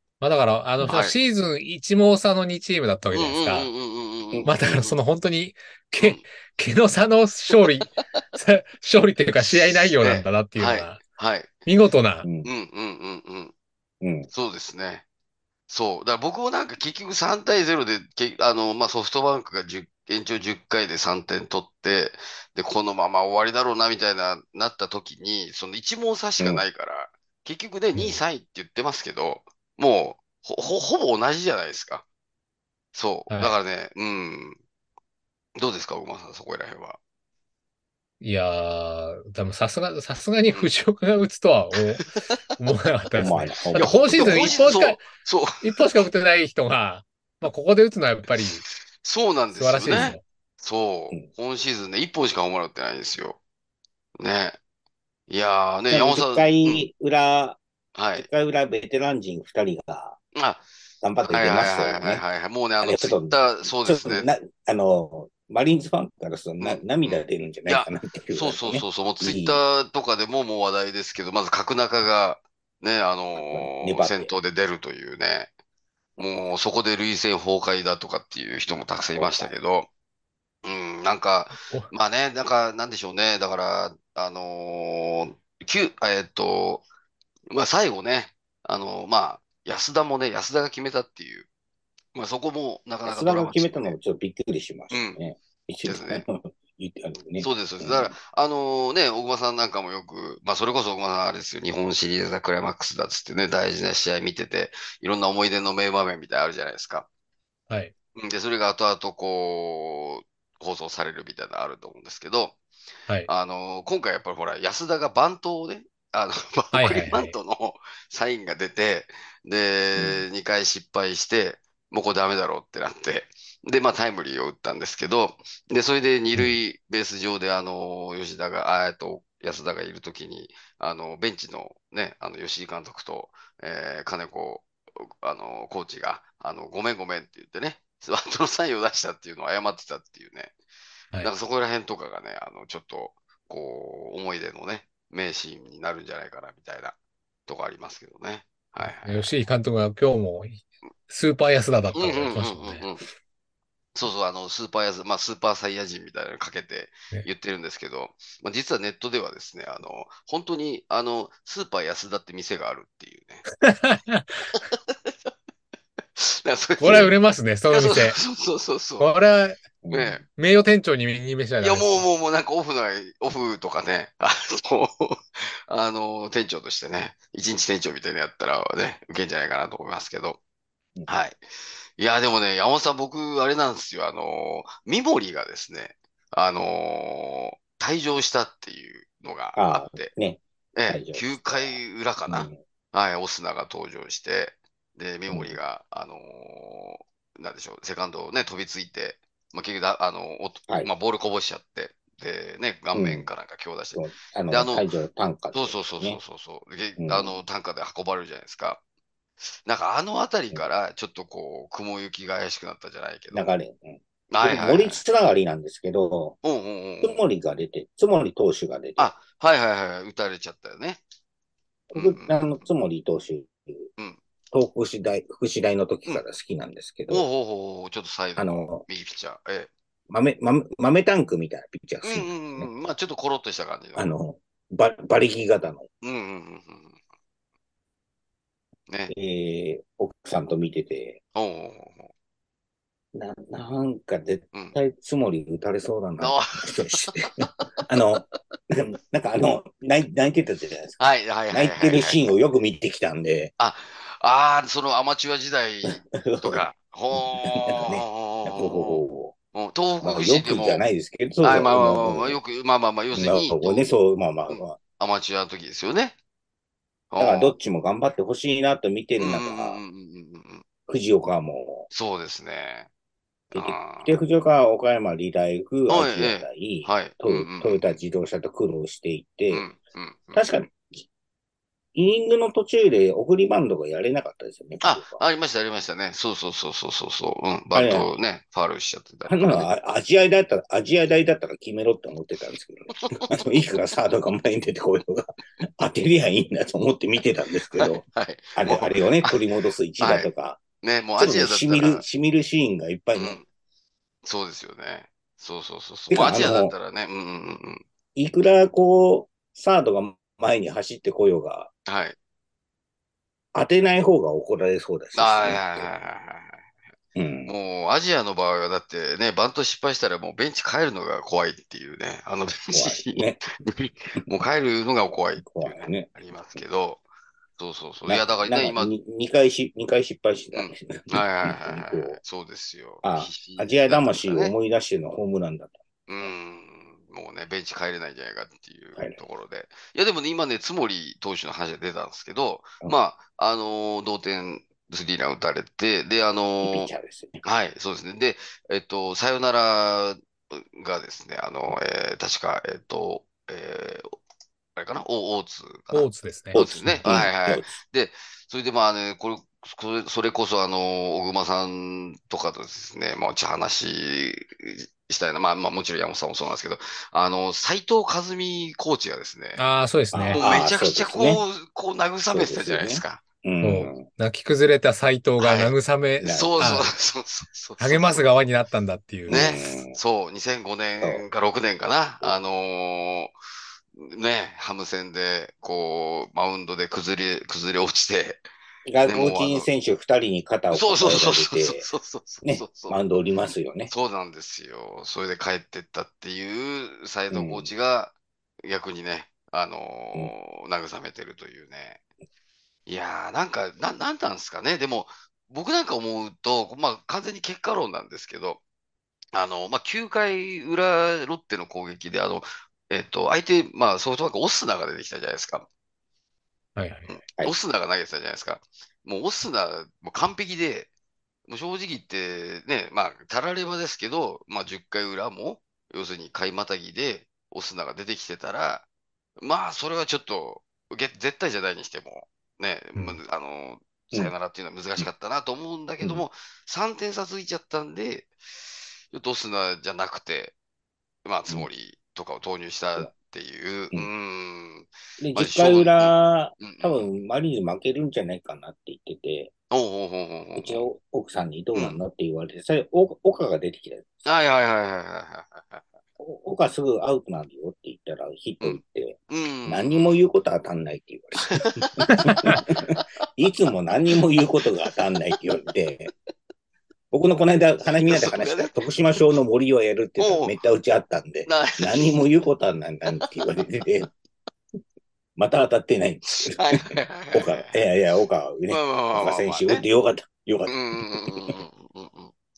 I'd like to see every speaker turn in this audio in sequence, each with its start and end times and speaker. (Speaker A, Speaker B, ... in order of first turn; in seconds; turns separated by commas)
Speaker A: 0.2-3.7, Speaker B: 0.8-1.2, Speaker B: 3.1-4.6, Speaker C: 4.3-4.9, Speaker A: 4.5-11.0, Speaker B: 10.0-11.7, Speaker A: 11.7-12.3, Speaker C: 12.2-12.5, Speaker B: 12.4-13.5, Speaker C: 14.0-14.3, Speaker B: 14.3-15.0, Speaker B: 15.7-32.0, Speaker C: 26.4-26.6, Speaker A: 27.9-28.2, Speaker B: 32.9-34.6, Speaker A: 33.3-33.5, Speaker B: 35.6-37.0, Speaker A: 38.2-45.0, Speaker B: 42.0-42.3, Speaker C: 43.2-44.8, Speaker B: 43.8-46.0, Speaker A: 45.6-48.6, Speaker B: 49.0-53.4, Speaker A: 49.5-50.2, Speaker B: 54.2-54.6, Speaker B: 55.3-56.9, Speaker C: 55.9-57.6, Speaker B: 58.0-58.3, Speaker C: 58.2-60.2, Speaker B: 60.4-60.7, Speaker C: 61.0-62.2, Speaker B: 61.2-64.3, Speaker C: 62.8-69.6, Speaker B: 66.6-75.5, Speaker C: 73.4-74.3, Speaker B: 76.2-79.9, Speaker C: 79.2-79.5, Speaker B: 80.6-86.8, Speaker A: 81.6-81.9, Speaker B: 87.5-91.5, Speaker B: 92.1-94.0, Speaker C: 93.0-98.2, Speaker B: 94.9-95.2, Speaker B: 95.8-96.2, Speaker B: 97.4-107.1, Speaker B: 108.2-112.6, Speaker B: 113.3-140.5, Speaker A: 116.7-117.3, Speaker C: 120.0-120.2, Speaker B: 141.2-147.0, Speaker B: 147.5-149.3, Speaker A: 148.8-152.9, Speaker B: 151.9-153.0, Speaker B: 153.9-163.4, Speaker A: 163.6-164.3, Speaker B: 164.6-165.3, Speaker B: 166.2-167.1, Speaker A: 166.8-168.2, Speaker B: 167.7-169.1, Speaker A: 169.0-169.6, Speaker C: 169.8-170.1, Speaker B: 169.9-170.2, Speaker A: 170.2-172.1, Speaker B: 171.6-180.4, Speaker B: 181.1-181.4, Speaker B: 182.0-190.1, Speaker C: 189.6-192.6, Speaker B: 190.8-204.9, Speaker C: 195.3-195.6, Speaker C: 202.9-203.3, Speaker C: 203.9-206.2, Speaker B: 205.5-208.8, Speaker C: 207.0-207.4, Speaker B: 209.4-213.6, Speaker C: 213.3-216.4, Speaker B: 214.3-215.0, Speaker B: 216.4-217.2, Speaker C: 217.0-219.1, Speaker B: 219.0-221.0, Speaker C: 221.9-223.9, Speaker B: 221.9-222.6, Speaker B: 224.0-224.2, Speaker C: 224.5-227.2, Speaker B: 227.1-229.7, Speaker C: 228.4-228.8, Speaker C: 230.1-232.7, Speaker B: 232.0-234.1, Speaker C: 234.0-235.9, Speaker B: 236.0-237.0, Speaker B: 238.9-239.1, Speaker C: 239.1-241.2, Speaker B: 241.3-242.1, Speaker C: 243.1-253.5, Speaker B: 246.2-247.8, Speaker B: 251.0-252.3, Speaker B: 253.6-259.0, Speaker C: 256.0-259.3, Speaker B: 259.5-260.8, Speaker C: 260.0-262.4, Speaker B: 261.4-263.9, Speaker C: 263.1-264.8, Speaker B: 264.5-266.2, Speaker B: 267.1-267.6, Speaker C: 267.2-269.8, Speaker B: 269.2-270.6, Speaker C: 270.9-271.9, Speaker B: 271.9-272.9, Speaker B: 273.5-274.2, Speaker C: 273.5-279.7, Speaker B: 275.9-278.0, Speaker B: 279.5-280.5, Speaker C: 280.3-281.1, Speaker C: 281.9-285.2, Speaker B: 284.8-289.7, Speaker C: 287.7-288.1, Speaker C: 289.3-298.0, Speaker B: 293.0-293.4, Speaker B: 297.7-299.4, Speaker C: 298.6-300.6, Speaker B: 300.0-300.3, Speaker B: 300.8-302.0, Speaker C: 301.2-303.4, Speaker B: 303.1-303.4, Speaker B: 304.2-307.8, Speaker C: 306.1-306.8, Speaker C: 308.2-311.7, Speaker B: 311.9-312.2, Speaker C: 313.5-315.9, Speaker B: 315.1-316.6, Speaker C: 317.2-317.5, Speaker B: 317.4-327.0, Speaker C: 322.7-323.5, Speaker C: 325.4-326.6, Speaker B: 327.6-328.9, Speaker C: 328.1-332.2, Speaker B: 330.5-334.5, Speaker C: 333.0-336.3, Speaker B: 336.1-354.2, Speaker C: 346.6-347.4, Speaker B: 354.8-369.6, Speaker A: 355.9-357.1, Speaker C: 356.6-357.8, Speaker A: 369.6-370.5, Speaker C: 370.1-371.4, Speaker B: 370.3-373.2, Speaker C: 372.3-374.0, Speaker A: 373.6-376.9, Speaker B: 375.4-375.7, Speaker C: 376.2-376.9, Speaker B: 376.2-378.3, Speaker A: 377.8-379.5, Speaker C: 379.3-380.0, Speaker B: 379.3-383.3, Speaker B: 384.0-388.4, Speaker C: 388.9-391.9, Speaker B: 389.1-389.7, Speaker B: 390.7-393.0, Speaker C: 392.4-393.9, Speaker B: 393.9-402.0, Speaker C: 397.3-397.7, Speaker B: 402.9-408.6, Speaker B: 409.3-415.7, Speaker A: 416.8-417.1, Speaker B: 417.1-420.9, Speaker B: 421.5-428.9, Speaker B: 429.4-438.3, Speaker B: 439.1-440.6, Speaker B: 441.2-447.1, Speaker C: 445.2-449.5, Speaker B: 449.7-450.9, Speaker C: 450.6-454.1, Speaker B: 451.7-452.0, Speaker B: 454.2-455.8, Speaker C: 456.2-466.1, Speaker B: 458.6-460.2, Speaker B: 461.4-463.0, Speaker C: 467.1-474.1, Speaker B: 468.1-468.9, Speaker B: 470.2-470.5, Speaker B: 471.5-472.3, Speaker C: 475.4-481.6, Speaker B: 476.4-477.8, Speaker B: 478.7-479.9, Speaker B: 480.7-482.3